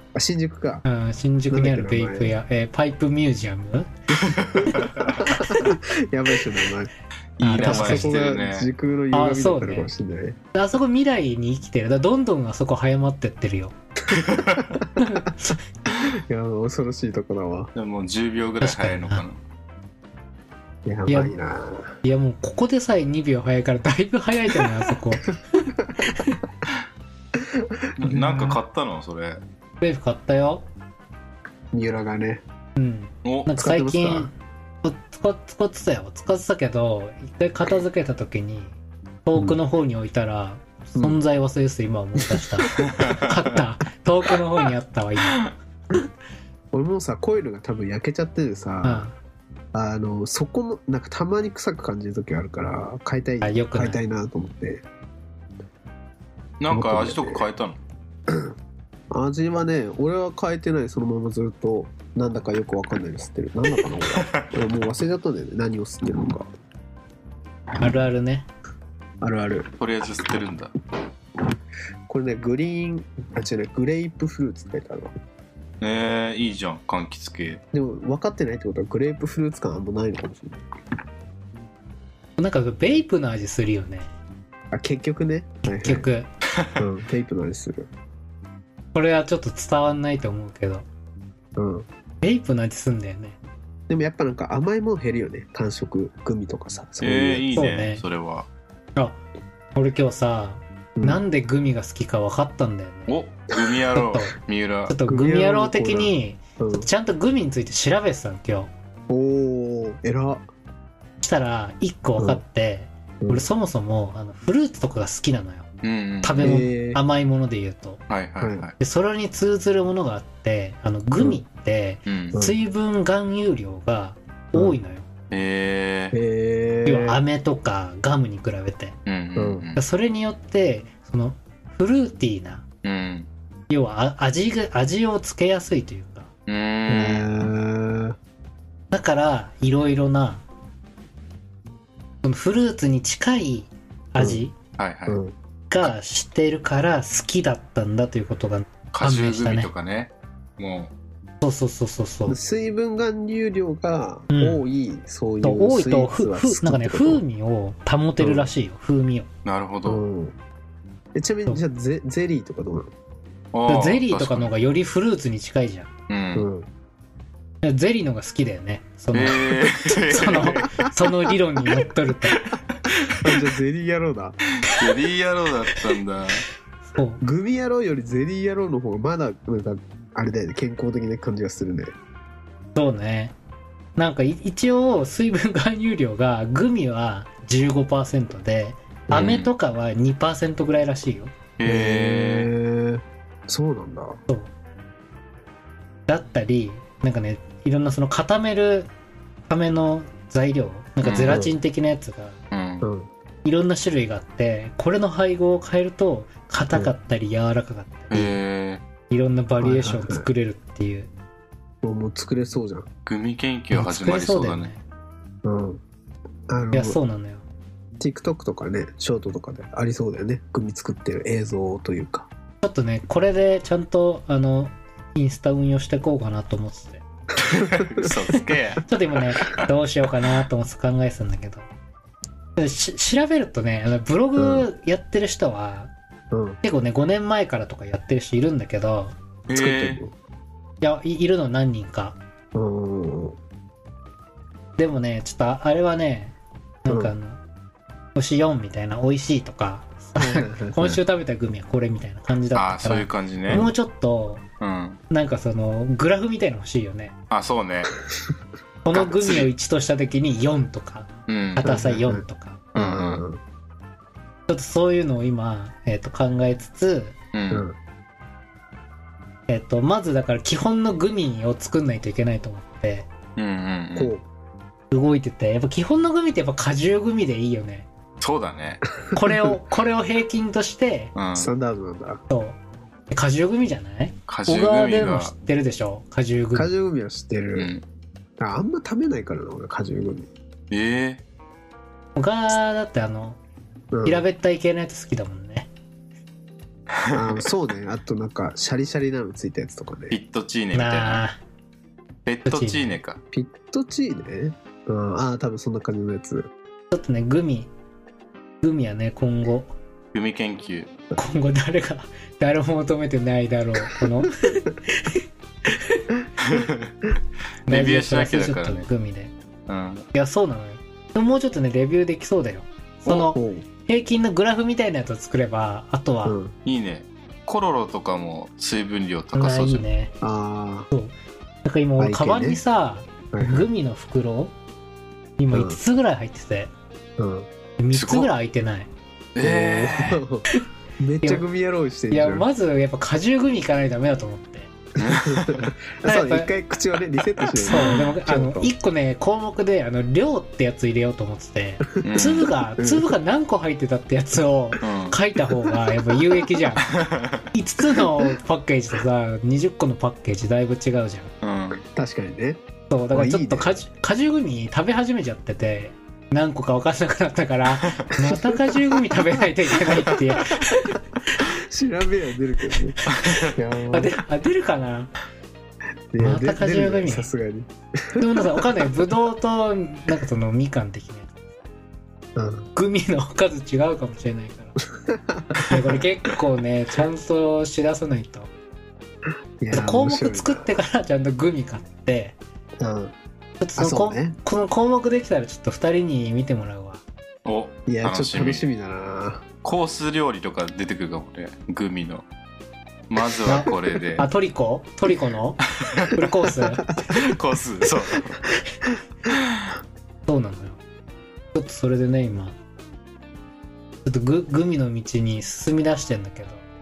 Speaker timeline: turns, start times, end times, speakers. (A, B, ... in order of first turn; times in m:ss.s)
0:00.1-0:00.8 A
0:00.8-0:03.9 B
0:01.5-0:02.3 A
0:04.2-0:05.3 C
0:04.5-0:06.9 A
0:07.4-0:08.7 C
0:07.4-0:08.2 B
0:07.5-0:10.4 A
0:09.1-0:09.9 B
0:10.5-0:13.7 B
0:14.1-0:14.8 C
0:15.0-0:15.6 B
0:16.0-0:17.7 A
0:17.7-0:19.4 C
0:18.6-0:19.2 B
0:20.8-0:22.0 A
0:21.1-0:21.3 B
0:22.0-0:26.4 B
0:27.4-0:28.6 A
0:28.0-0:29.4 C
0:29.8-0:30.6 B
0:31.7-0:32.4 A
0:32.8-0:45.5 B
0:33.2-0:33.5 C
0:33.5-0:34.3 A
0:40.9-0:41.2 A
0:42.3-0:42.8 A
0:42.8-0:43.5 C
0:46.7-0:49.1 A
0:48.8-0:49.1 B
0:49.7-0:54.8 A
0:53.4-0:54.0 B
0:56.6-0:57.8 C
0:56.7-0:57.4 A
0:58.3-0:58.5 A
0:59.1-1:06.5 A
1:04.1-1:04.5 C
1:07.8-1:08.5 B
1:09.2-1:09.7 A
1:09.8-1:10.7 C
1:12.1-1:15.1 A
1:15.8-1:17.6 C
1:17.7-1:20.6 A
1:22.4-1:24.1 B
1:24.7-1:26.1 A
1:25.6-1:26.3 B
1:26.6-1:26.8 C
1:26.8-1:27.9 A
1:28.9-1:30.8 B
1:31.6-1:31.9 A
1:32.2-1:33.4 B
1:33.9-1:37.7 A
1:37.0-1:38.5 C
1:37.5-1:38.0 B
1:39.7-1:43.1 B
1:41.0-1:41.2 A
1:43.1-1:44.9 C
1:44.0-1:44.3 B
1:44.9-1:48.7 B
1:45.0-1:46.9 A
1:49.1-1:50.4 A
1:51.2-1:55.7 B
1:52.2-1:52.4 A
1:53.2-1:53.4 A
1:55.8-1:56.5 C
1:56.2-1:58.0 B
1:56.4-1:57.0 A
1:58.1-1:58.7 C
1:58.4-1:58.7 A
1:58.8-2:05.1 B
2:02.1-2:02.4 C
2:05.3-2:06.1 C
2:06.1-2:07.2 A
2:06.8-2:09.0 B
2:09.1-2:09.8 C
2:09.4-2:09.7 A
2:09.8-2:12.6 B
2:12.8-2:13.3 C
2:13.7-2:16.3 B
2:16.5-2:17.5 C
2:16.9-2:18.2 A
2:18.9-2:20.4 B
2:22.2-2:24.5 B
2:24.2-2:24.4 A
2:24.8-2:25.2 C
2:25.1-2:25.3 A
2:25.7-2:29.7 B
2:28.9-2:30.9 C
2:31.4-2:32.4 B
2:32.3-2:37.2 A
2:34.3-2:34.6 B
2:35.4-2:39.3 B
2:38.2-2:38.5 A
2:39.4-2:40.0 C
2:39.8-2:40.4 A
2:41.1-2:42.9 A
2:43.5-2:44.5 C
2:43.7-2:45.9 B
2:46.1-2:46.5 C
2:46.3-2:46.7 A
2:47.6-2:52.4 B
2:49.1-2:50.7 C
2:50.2-2:51.0 A
2:52.8-2:53.4 C
2:53.2-2:54.4 A
2:54.6-2:56.4 C
2:56.8-2:57.2 B
2:57.2-3:01.9 A
3:02.7-3:03.3 B
3:04.0-3:11.3 B
3:09.1-3:09.5 C
3:11.6-3:12.5 C
3:11.6-3:14.2 A
3:16.1-3:18.9 B
3:19.5-3:22.4 B
3:21.0-3:21.4 C
3:21.2-3:21.6 A
3:22.5-3:22.8 C
3:22.8-3:23.1 A
3:23.4-3:28.4 B
3:28.1-3:28.8 C
3:29.1-3:31.1 B
3:29.6-3:30.3 A
3:31.8-3:32.9 A
3:33.0-3:34.7 C
3:33.7-3:34.8 B
3:35.4-3:35.8 A
3:36.5-3:37.0 A
3:36.7-3:37.4 B
3:38.0-3:42.3 A
3:42.6-3:47.0 B
3:47.4-3:48.8 C
3:47.6-3:48.4 A
3:48.8-3:51.7 B
3:52.6-3:55.9 B
3:54.4-3:54.7 A
3:56.3-3:56.6 A
3:56.6-3:59.1 B
3:59.5-4:00.0 C
3:59.5-4:00.1 A
4:00.8-4:02.2 B
4:02.5-4:03.4 A
4:04.8-4:07.4 B
4:06.9-4:07.1 A
4:08.1-4:14.4 B
4:10.2-4:11.0 A
4:12.5-4:13.7 C
4:14.6-4:15.0 C
4:15.1-4:17.2 B
4:17.3-4:17.9 C
4:18.8-4:22.6 B
4:18.9-4:19.5 C
4:21.3-4:21.8 C
4:21.6-4:22.2 A
4:22.7-4:23.2 C
4:22.8-4:23.4 A
4:24.5-4:27.2 B
4:27.3-4:27.6 C
4:27.5-4:27.8 A
4:29.5-4:33.1 B
4:33.4-4:34.1 C
4:33.9-4:34.2 A
4:34.9-4:37.9 B
4:38.2-4:38.8 C
4:39.1-4:39.5 A
4:39.1-4:41.1 B
4:41.1-4:41.5 C
4:41.4-4:42.2 A
4:42.3-4:42.6 B
4:43.1-4:46.7 B
4:44.3-4:45.3 C
4:46.5-4:47.7 A
4:47.6-4:47.8 C
4:48.4-4:50.3 A
4:50.7-4:51.2 C
4:52.2-4:53.4 B
4:53.9-4:54.2 A
4:54.0-4:55.7 B
4:56.9-4:57.4 C
4:57.1-5:00.2 A
5:00.1-5:01.2 C
5:00.7-5:01.4 B
5:02.2-5:03.2 C
5:02.4-5:02.8 B
5:03.3-5:06.5 A
5:06.9-5:07.7 B
5:08.6-5:09.7 B
5:10.1-5:10.9 C
5:11.2-5:16.0 B
5:16.4-5:16.9 C
5:17.6-5:18.8 C
5:17.7-5:19.3 B
5:19.7-5:20.1 C
5:20.1-5:26.4 B
5:23.0-5:23.6 A
5:26.2-5:26.5 A
5:26.6-5:29.8 C
5:29.3-5:30.1 B
5:30.2-5:30.9 A
5:30.9-5:34.5 B
5:32.0-5:32.6 A
5:33.3-5:33.7 A
5:35.4-5:36.7 B
5:35.5-5:35.8 A
5:37.2-5:37.5 A
5:37.8-5:38.9 B
5:37.9-5:38.3 C
5:39.3-5:40.2 C
5:39.4-5:40.5 A
5:41.0-5:42.5 A
5:42.1-5:44.7 B
5:45.0-5:45.7 C
5:45.0-5:48.7 A
5:46.0-5:46.5 B
5:47.6-5:56.9 B
5:52.0-5:52.5 C
5:52.8-5:53.1 A
5:54.8-5:55.2 C
5:55.5-5:55.8 A
5:56.8-5:57.4 C
5:57.5-6:01.3 B
5:57.9-5:58.3 A
6:01.4-6:01.8 C
6:01.9-6:02.6 A
6:02.9-6:11.5 B
6:03.1-6:03.8 A
6:08.2-6:08.8 A
6:09.9-6:10.2 A
6:11.4-6:14.1 A
6:13.2-6:13.5 C
6:13.9-6:15.1 B
6:16.1-6:18.7 A
6:16.2-6:17.3 B
6:18.2-6:21.4 B
6:22.3-6:22.7 A
6:22.7-6:24.8 B
6:25.0-6:26.0 A
6:25.6-6:28.5 B
6:29.6-6:30.7 A
6:29.7-6:32.4 B
6:32.8-6:33.1 A
6:33.6-6:37.0 B
6:33.8-6:34.4 A
6:37.4-6:38.6 C
6:37.9-6:39.4 A
6:39.6-6:42.2 C
6:43.1-6:44.3 C
6:43.4-6:46.9 B
6:45.8-6:46.1 C
6:47.1-6:48.4 C
6:49.3-6:49.7 C
6:50.2-6:50.8 B
6:51.5-6:52.6 B
6:54.0-6:56.6 B